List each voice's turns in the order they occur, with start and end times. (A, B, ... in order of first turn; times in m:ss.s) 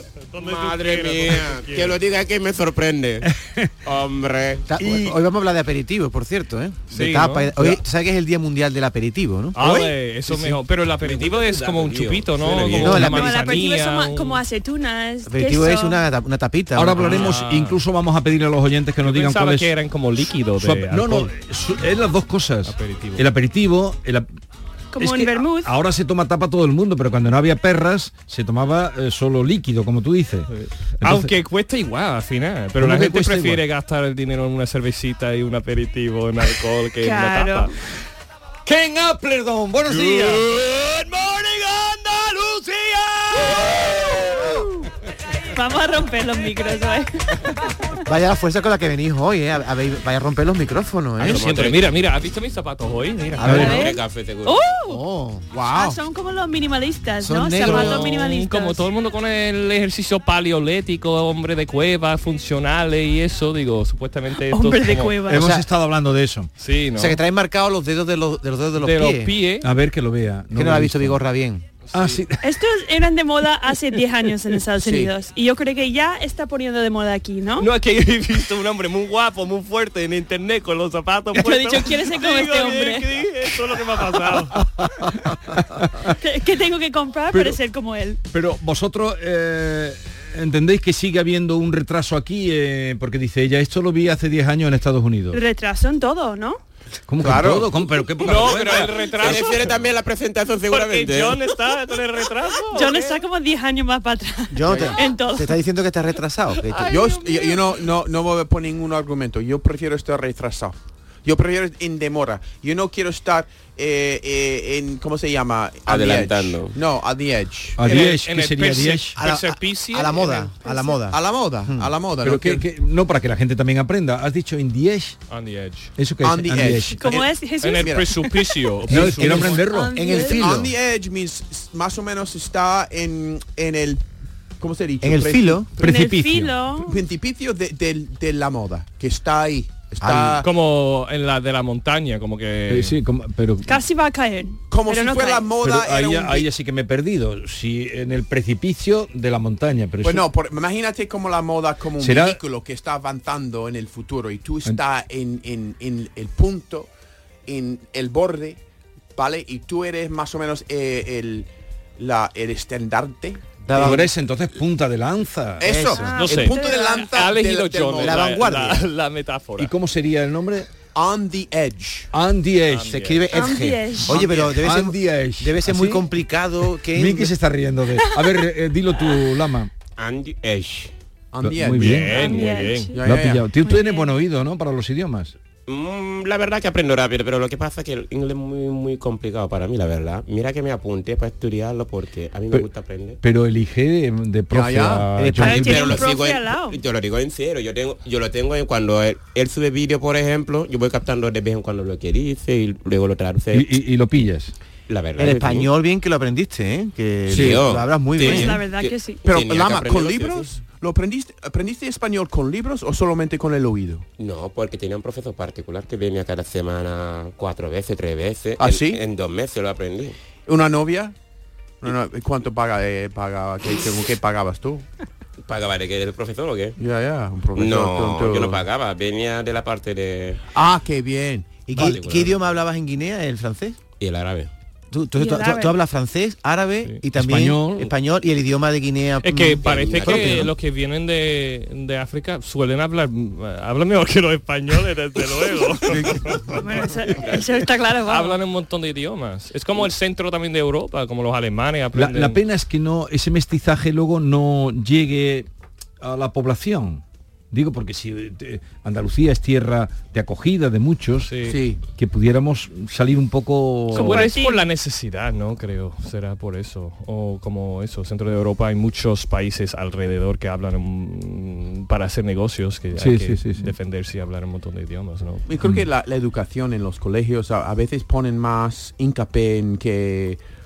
0:00.3-0:02.0 A
0:00.4-0:03.3 B
0:03.2-0:03.7 C
0:03.8-0:04.7 B
0:04.7-0:09.9 D
0:04.8-0:05.1 C
0:06.9-0:07.6 A
0:09.5-0:14.4 A
0:11.0-0:13.2 B
0:12.8-0:13.3 D
0:12.9-0:16.0 E
0:15.2-0:17.4 D
0:16.7-0:19.7 C
0:16.9-0:17.8 A
0:19.0-0:21.3 A
0:20.5-0:24.3 C
0:22.6-0:23.2 A
0:24.9-0:25.7 E
0:25.0-0:30.5 C
0:30.5-0:37.7 A
0:31.0-0:31.3 C
0:32.8-0:33.6 C
0:37.0-0:37.7 E
0:38.6-0:44.7 C
0:39.9-0:40.5 A
0:45.5-0:47.3 E
0:48.0-0:51.4 D
0:51.2-0:52.0 B
0:51.2-0:53.8 A
0:53.4-0:53.8 D
0:53.4-0:55.0 E
0:53.5-0:54.6 B
0:54.9-0:55.5 D
0:55.5-0:56.0 F
0:55.6-0:58.8 E
0:57.2-0:58.1 D
0:57.6-1:05.2 A
1:04.5-1:05.4 E
1:05.3-1:06.5 C
1:05.4-1:05.6 D
1:06.6-1:07.2 A
1:07.0-1:09.3 D
1:08.8-1:09.7 A
1:09.6-1:11.2 C
1:10.5-1:11.6 D
1:11.8-1:12.2 A
1:11.9-1:12.4 C
1:12.4-1:17.7 E
1:14.8-1:15.1 F
1:17.6-1:24.7 A
1:21.3-1:23.1 E
1:24.6-1:26.1 C
1:26.1-1:28.2 E
1:27.3-1:27.6 C
1:28.3-1:35.4 C
1:35.3-1:36.6 E
1:37.1-1:38.9 C
1:37.2-1:38.3 F
1:38.2-1:39.9 A
1:38.2-1:41.4 B
1:40.7-1:43.2 A
1:42.7-1:45.5 E
1:44.5-1:46.9 D
1:44.7-1:45.0 F
1:46.5-1:47.8 A
1:46.9-1:57.9 F
1:55.9-1:56.8 B
1:57.8-1:59.2 C
1:57.8-2:00.5 A
1:59.2-2:01.9 D
2:00.6-2:01.0 E
2:01.1-2:02.7 F
2:02.2-2:05.2 C
2:05.3-2:05.9 A
2:06.0-2:07.0 C
2:06.2-2:08.1 F
2:07.0-2:08.4 E
2:07.6-2:09.8 A
2:08.9-2:10.1 C
2:08.9-2:10.7 D
2:09.4-2:10.5 E
2:10.1-2:14.0 F
2:14.6-2:15.8 F
2:15.0-2:15.7 D
2:15.8-2:16.6 C
2:15.8-2:17.0 E
2:16.8-2:20.5 F
2:20.0-2:20.4 D
2:20.4-2:23.0 A
2:22.7-2:23.7 C
2:23.6-2:25.5 E
2:24.7-2:26.5 F
2:25.6-2:30.2 C
2:30.0-2:36.9 F
2:32.0-2:32.4 C
2:37.5-2:38.6 F
2:39.2-2:44.1 F
2:43.6-2:44.1 D
2:43.7-2:45.7 C
2:45.6-2:48.4 F
2:45.6-2:46.2 D
2:45.9-2:47.2 E
2:46.1-2:49.7 A
2:48.0-2:48.8 D
2:49.6-2:50.7 C
2:50.9-2:52.1 F
2:52.1-2:53.0 C
2:52.7-2:53.3 A
2:52.9-2:57.3 D
2:53.3-2:54.2 E
2:54.1-2:54.6 F
2:54.2-2:56.1 C
2:56.9-2:59.7 C
2:58.0-2:58.4 E
3:00.0-3:00.9 B
3:01.3-3:02.4 F
3:01.4-3:02.3 C
3:01.7-3:03.0 A
3:02.0-3:03.0 E
3:03.0-3:03.5 F
3:03.0-3:05.3 C
3:03.6-3:04.1 E
3:05.7-3:13.2 B
3:13.2-3:16.0 C
3:14.5-3:15.1 F
3:15.2-3:15.9 D
3:15.4-3:16.8 E
3:15.5-3:23.8 B
3:23.5-3:24.5 C
3:24.9-3:25.7 B
3:25.2-3:28.6 D
3:27.3-3:30.5 B
3:27.3-3:27.6 C
3:28.2-3:29.2 E
3:29.2-3:34.0 F
3:34.2-3:40.1 B
3:38.6-3:39.0 F
3:40.4-3:41.1 F
3:41.8-3:44.8 F
3:45.4-3:46.8 B
3:46.8-3:48.6 F
3:47.5-3:50.4 B
3:50.5-3:51.6 F
3:51.7-3:53.8 D
3:51.7-3:52.6 B
3:54.0-3:54.5 B
3:54.9-4:00.5 D
3:55.2-3:55.7 E
3:57.1-3:57.9 C
3:59.2-4:06.6 A
3:59.6-4:00.5 B
4:05.9-4:06.6 C
4:06.6-4:08.4 E
4:08.0-4:12.4 A
4:11.9-4:15.5 C
4:16.0-4:21.3 C
4:21.2-4:21.6 A
4:21.5-4:21.8 F
4:21.9-4:24.3 C
4:23.9-4:35.5 A
4:23.9-4:24.6 E
4:32.9-4:33.7 C
4:35.5-4:40.4 F
4:35.6-4:35.9 C